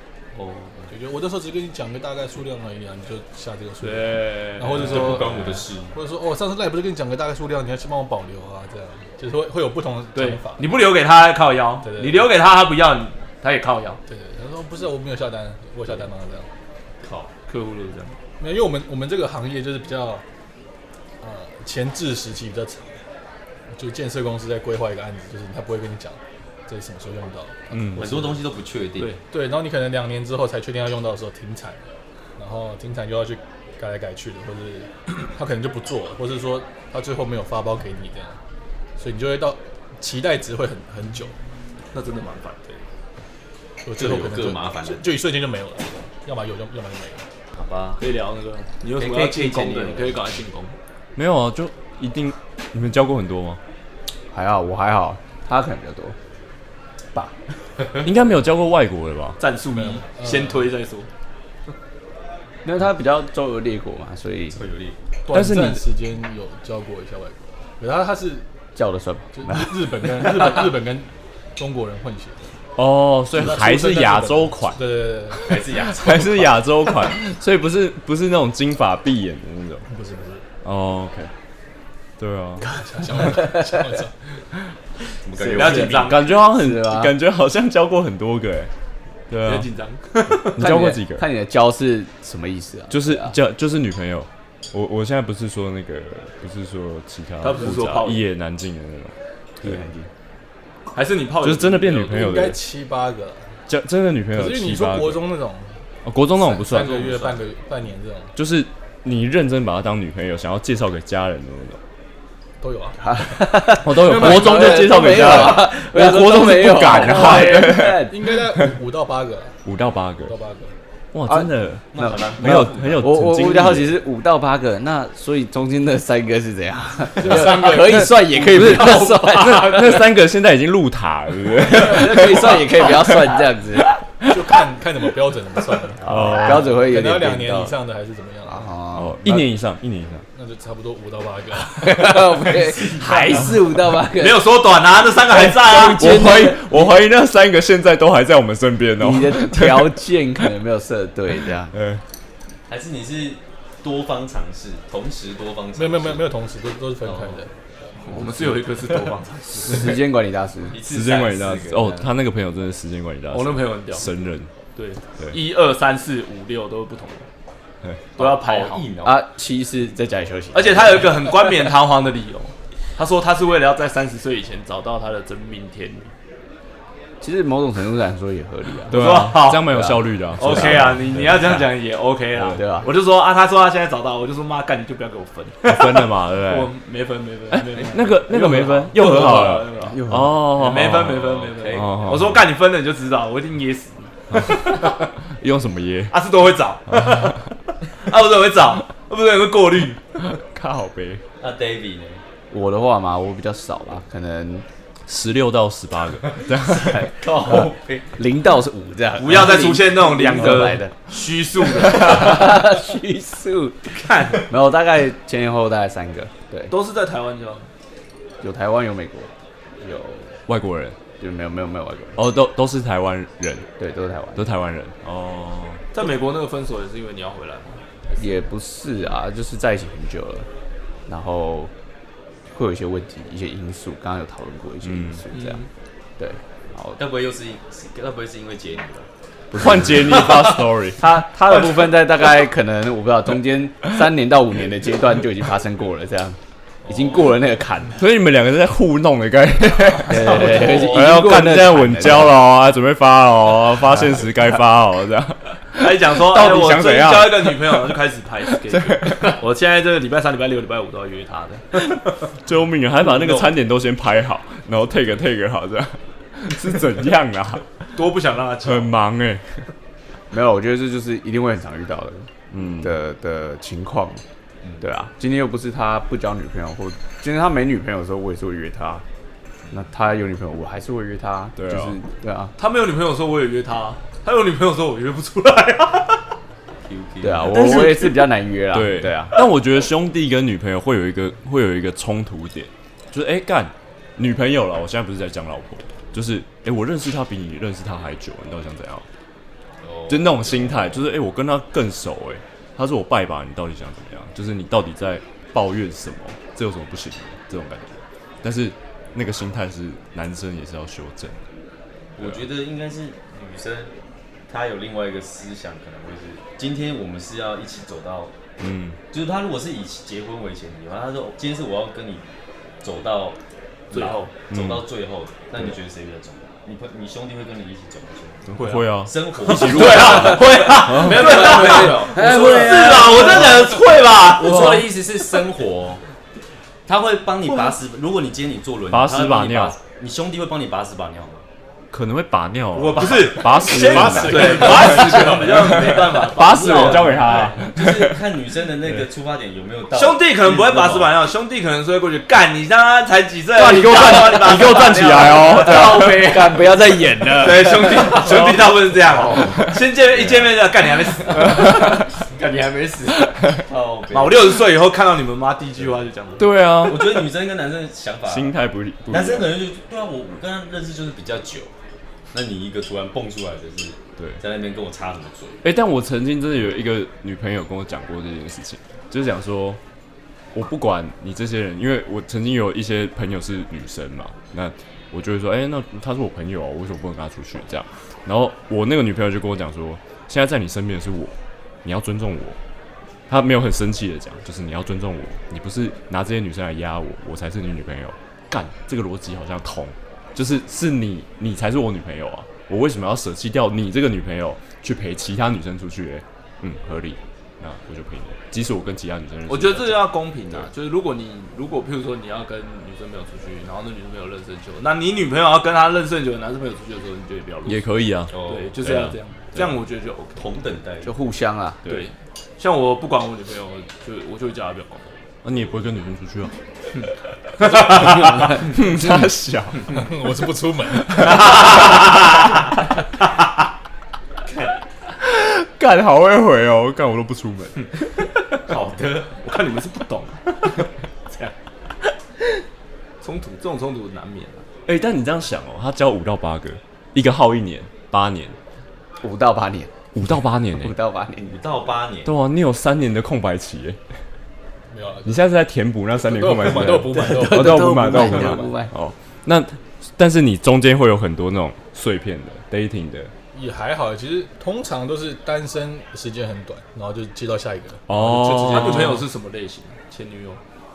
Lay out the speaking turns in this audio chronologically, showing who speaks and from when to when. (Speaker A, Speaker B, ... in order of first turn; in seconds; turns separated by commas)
Speaker A: 0.4-0.8, Speaker B: 0.9-10.7, Speaker C: 3.8-5.4, Speaker A: 4.7-5.9, Speaker C: 10.1-14.0, Speaker B: 11.8-12.3, Speaker B: 14.1-16.5, Speaker A: 17.0-17.3, Speaker C: 17.5-18.1, Speaker B: 18.4-20.2, Speaker B: 21.2-23.0, Speaker B: 23.7-28.4, Speaker D: 27.7-28.1, Speaker A: 27.9-29.2, Speaker B: 29.3-31.8, Speaker B: 32.4-38.4, Speaker B: 39.0-41.3, Speaker C: 41.9-42.8, Speaker B: 43.8-47.2, Speaker A: 43.9-45.1, Speaker A: 47.5-48.0, Speaker C: 48.0-50.7, Speaker A: 49.0-50.2, Speaker D: 51.1-53.6, Speaker E: 54.3-56.1, Speaker D: 58.0-59.4, Speaker C: 59.4-61.1, Speaker B: 59.7-60.7, Speaker E: 62.6-64.6, Speaker A: 64.5-65.0, Speaker B: 65.3-68.5, Speaker D: 65.3-65.9, Speaker E: 68.7-70.6, Speaker B: 69.3-72.5, Speaker D: 72.8-79.9, Speaker B: 73.3-75.5, Speaker A: 75.4-76.6, Speaker B: 79.9-80.4, Speaker D: 80.6-81.3, Speaker D: 82.2-83.3, Speaker B: 82.6-84.1, Speaker A: 85.2-86.3, Speaker E: 85.4-87.2, Speaker C: 85.4-86.3, Speaker D: 85.8-88.7, Speaker D: 89.3-89.7, Speaker C: 89.4-90.6, Speaker D: 90.3-91.2, Speaker E: 90.6-93.3, Speaker D: 92.9-99.8, Speaker C: 97.4-98.2, Speaker E: 99.6-100.1, Speaker C: 100.9-102.4, Speaker D: 101.4-102.6, Speaker B: 102.1-103.4, Speaker D: 103.7-105.3, Speaker B: 104.3-105.7, Speaker D: 106.0-107.1, Speaker B: 106.4-108.3, Speaker C: 106.7-107.3, Speaker D: 108.3-111.8, Speaker B: 112.6-113.2, Speaker E: 113.0-118.2, Speaker D: 113.7-118.8, Speaker B: 114.0-115.2, Speaker B: 117.1-119.6, Speaker D: 119.6-120.3, Speaker B: 120.2-120.7, Speaker D: 121.1-123.9, Speaker E: 121.2-130.1, Speaker A: 121.9-123.1, Speaker B: 127.2-129.4, Speaker D: 127.2-134.3, Speaker E: 131.6-133.9, Speaker B: 134.2-138.7, Speaker E: 136.0-137.8, Speaker D: 136.0-136.8, Speaker E: 138.4-139.4, Speaker D: 138.9-140.2, Speaker B: 140.3-142.2, Speaker E: 141.6-144.4, Speaker A: 142.6-143.4, Speaker C: 144.2-146.2, Speaker E: 145.3-146.9, Speaker D: 146.0-150.1, Speaker E: 149.0-151.7, Speaker D: 151.7-152.0, Speaker A: 152.7-156.3, Speaker B: 155.8-157.5, Speaker C: 158.0-159.9, Speaker E: 159.6-160.8, Speaker A: 160.7-162.1, Speaker D: 160.8-164.5, Speaker C: 163.3-164.1, Speaker C: 164.8-167.2, Speaker C: 168.2-168.9, Speaker A: 168.2-169.2, Speaker E: 169.0-171.3, Speaker C: 170.5-176.1, Speaker E: 177.2-181.5, Speaker C: 178.9-179.8, Speaker D: 178.9-181.6, Speaker C: 180.4-194.8, Speaker D: 182.3-182.6, Speaker E: 182.5-182.9, Speaker D: 185.6-186.7, Speaker D: 187.5-192.4, Speaker E: 189.0-190.7, Speaker A: 191.1-192.2, Speaker D: 194.3-196.2, Speaker C: 196.1-197.4, Speaker D: 196.9-197.5, Speaker C: 197.9-200.0, Speaker D: 200.3-201.2, Speaker A: 201.4-202.2, Speaker E: 202.5-204.7, Speaker D: 205.1-207.1, Speaker A: 206.7-208.2, Speaker E: 206.9-210.9, Speaker C: 209.2-212.6, Speaker E: 211.7-216.7, Speaker C: 214.0-214.4, Speaker C: 216.7-217.7, Speaker E: 218.4-219.3, Speaker E: 219.8-220.3, Speaker D: 220.5-220.9, Speaker E: 221.2-222.2, Speaker D: 222.2-223.7, Speaker E: 223.8-224.5, Speaker D: 224.3-225.8, Speaker C: 225.9-228.3, Speaker E: 228.2-230.5, Speaker E: 231.1-231.7, Speaker E: 232.5-235.6, Speaker D: 234.8-235.2, Speaker C: 235.3-235.7, Speaker E: 236.2-237.0, Speaker A: 236.9-239.1, Speaker E: 239.5-240.2, Speaker D: 239.5-241.0, Speaker A: 239.6-240.5, Speaker E: 241.0-248.0, Speaker D: 248.0-257.8, Speaker E: 250.1-252.4, Speaker C: 250.3-251.0, Speaker C: 255.7-261.9, Speaker D: 258.7-259.4, Speaker D: 262.4-267.7, Speaker C: 267.9-268.9, Speaker D: 268.6-269.6, Speaker E: 270.3-274.2, Speaker D: 272.5-272.9, Speaker E: 274.8-279.0, Speaker E: 279.7-282.5, Speaker D: 281.6-282.0, Speaker C: 282.6-286.2, Speaker A: 286.8-287.6, Speaker E: 287.2-289.4, Speaker D: 287.5-299.0, Speaker A: 299.8-301.0, Speaker D: 300.1-311.4, Speaker A: 312.1-313.9, Speaker A: 314.5-318.3, Speaker D: 318.6-319.0, Speaker A: 319.1-322.2, Speaker A: 322.8-323.4, Speaker C: 323.9-324.3, Speaker A: 323.9-336.0, Speaker D: 324.5-324.9, Speaker D: 328.5-331.7, Speaker C: 328.6-328.8, Speaker C: 329.4-334.8, Speaker E: 332.3-332.8, Speaker D: 334.5-334.9, Speaker A: 336.9-341.4, Speaker D: 338.9-339.8, Speaker D: 341.9-348.2, Speaker A: 342.7-351.2, Speaker C: 342.9-347.6, Speaker B: 343.8-344.8, Speaker E: 343.8-345.0, Speaker C: 349.9-355.7, Speaker E: 353.6-358.2, Speaker D: 353.8-356.4, Speaker A: 353.8-356.5, Speaker C: 357.4-361.7, Speaker D: 358.2-358.5, Speaker A: 360.1-360.5, Speaker A: 361.3-364.6, Speaker D: 361.5-361.9, Speaker C: 364.1-366.5, Speaker D: 366.4-367.3, Speaker A: 366.8-368.5, Speaker D: 368.3-369.6, Speaker A: 369.1-371.7, Speaker A: 372.3-375.6, Speaker D: 375.6-379.8, Speaker D: 380.5-392.6, Speaker D: 393.3-410.0, Speaker C: 409.5-417.8, Speaker D: 417.6-419.8, Speaker A: 418.3-418.7, Speaker C: 418.3-420.4, Speaker A: 420.4-421.1, Speaker E: 421.0-421.8, Speaker C: 421.9-425.1, Speaker D: 425.4-426.6, Speaker C: 427.6-428.3, Speaker D: 427.7-430.0, Speaker B: 429.9-431.6, Speaker D: 431.1-431.9, Speaker D: 435.2-437.9, Speaker A: 438.7-439.3, Speaker C: 439.4-441.5, Speaker C: 443.2-444.6, Speaker D: 444.9-448.6, Speaker E: 449.2-449.9, Speaker D: 450.1-450.9, Speaker E: 450.7-451.6, Speaker A: 451.4-452.4, Speaker D: 452.2-454.0, Speaker B: 454.9-455.4, Speaker D: 455.2-463.3, Speaker B: 456.2-458.0, Speaker E: 457.0-458.9, Speaker B: 463.5-468.1, Speaker D: 468.1-469.2, Speaker C: 468.1-470.6, Speaker B: 468.6-468.9